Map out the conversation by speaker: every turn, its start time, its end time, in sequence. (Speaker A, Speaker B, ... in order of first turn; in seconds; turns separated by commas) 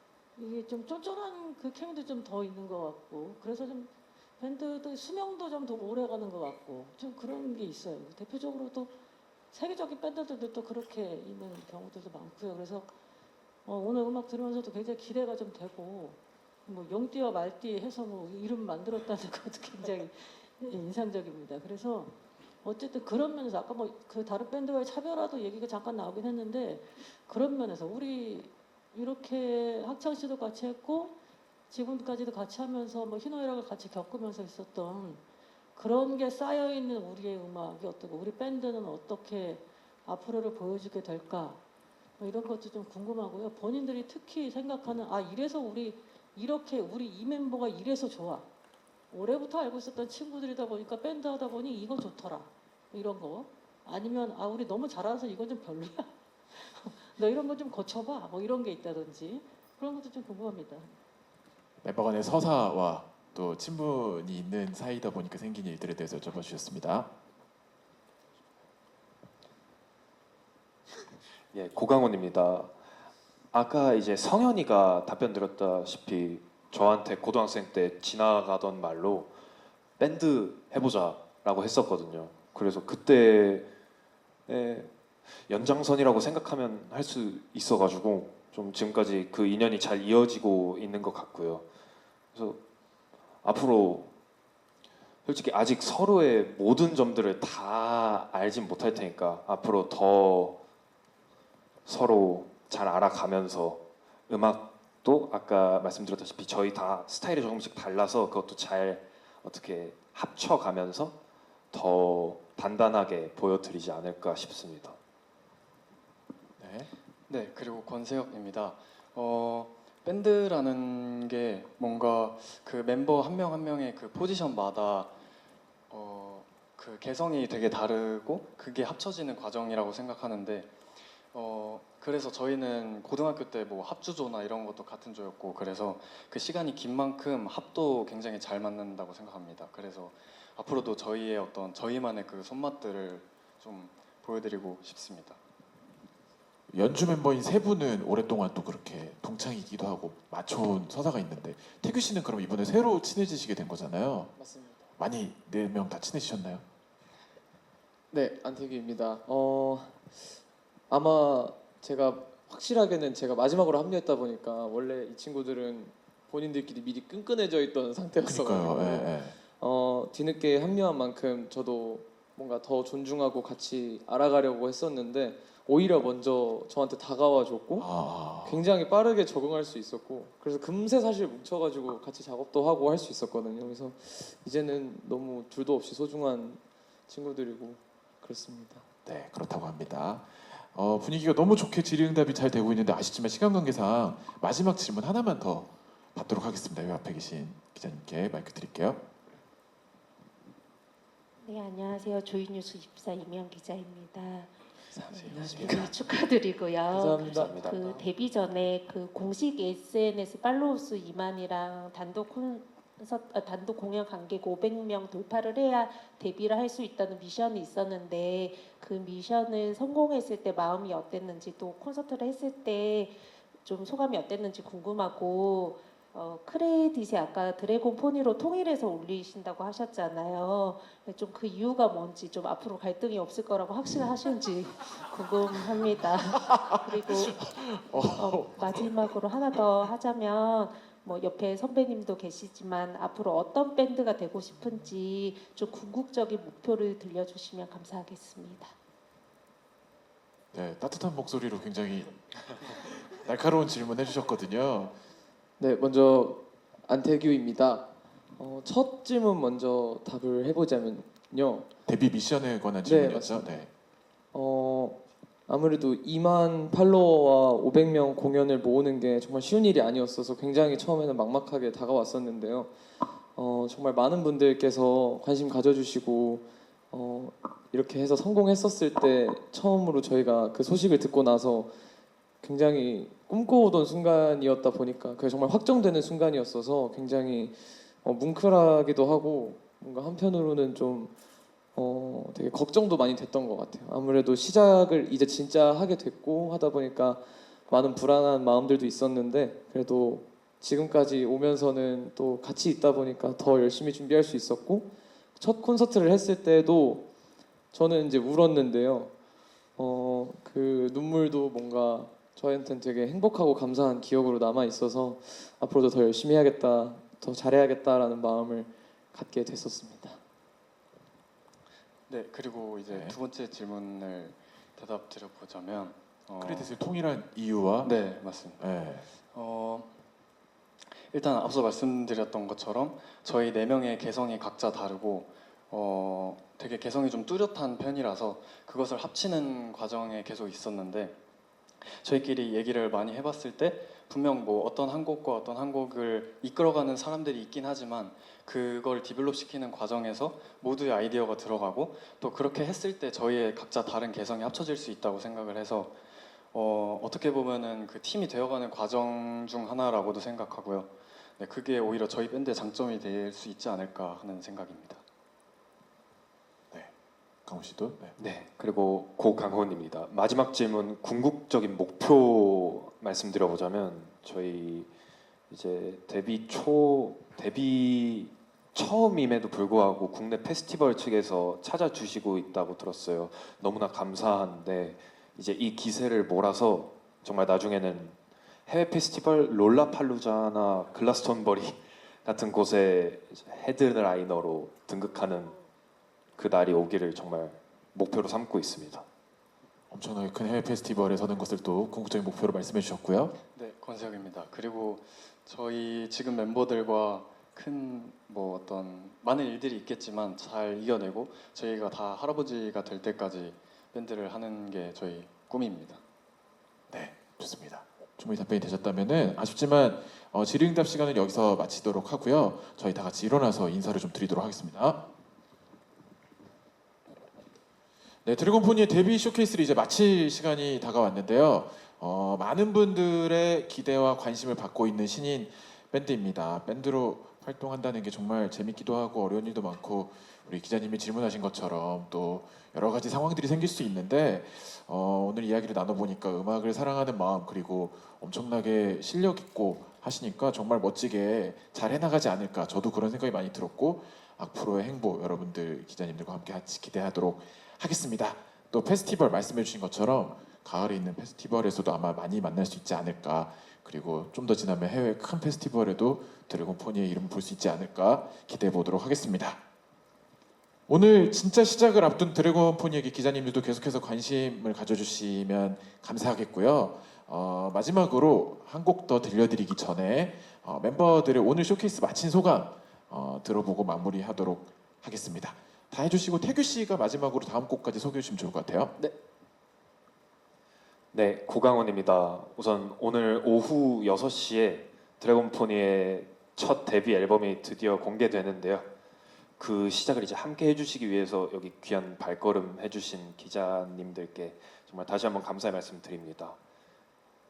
Speaker A: 0.4-9.0, Speaker A: 9.5-12.9, Speaker A: 13.7-31.2, Speaker A: 31.7-35.2, Speaker A: 35.8-41.6, Speaker A: 42.2-48.5, Speaker A: 49.1-61.0, Speaker B: 61.8-67.1, Speaker C: 71.5-72.7, Speaker C: 73.5-79.3, Speaker C: 80.0-83.7, Speaker C: 84.5-91.7, Speaker C: 92.3-92.6, Speaker C: 93.4-94.1, Speaker C: 95.2-100.6, Speaker C: 101.9-111.2, Speaker C: 111.7-115.0, Speaker B: 116.6-116.9, Speaker D: 117.3-125.2, Speaker D: 125.9-145.4, Speaker B: 146.7-154.3, Speaker E: 154.4-154.8, Speaker B: 155.0-156.7, Speaker E: 158.1-160.4, Speaker E: 160.9-177.9, Speaker B: 168.2-169.4, Speaker B: 177.8-178.6, Speaker E: 178.4-188.8, Speaker B: 189.1-199.0, Speaker F: 201.4-204.5, Speaker E: 204.9-205.9, Speaker D: 205.1-205.8, Speaker F: 205.6-248.7, Speaker E: 206.9-207.5, Speaker C: 207.2-208.1, Speaker B: 236.3-239.6, Speaker B: 250.5-255.0, Speaker E: 255.6-261.7, Speaker B: 261.9-263.7, Speaker E: 262.9-263.6, Speaker E: 264.3-272.7, Speaker E: 273.3-281.8, Speaker E: 282.4-291.1, Speaker E: 291.8-307.1, Speaker E: 307.7-309.1, Speaker E: 309.8-320.2, Speaker D: 322.1-326.7, Speaker B: 322.9-323.2, Speaker B: 326.4-328.0, Speaker D: 327.8-328.6, Speaker B: 328.6-329.1, Speaker D: 329.3-329.9, Speaker D: 331.1-341.2, Speaker D: 341.8-365.0, Speaker B: 367.4-368.2, Speaker C: 368.2-374.9, Speaker C: 375.5-395.6, Speaker C: 396.4-399.1, Speaker B: 399.9-403.4, Speaker D: 403.5-416.0, Speaker B: 416.9-425.1, Speaker B: 428.2-469.6, Speaker B: 470.9-488.9, Speaker C: 491.1-498.9, Speaker C: 499.6-506.6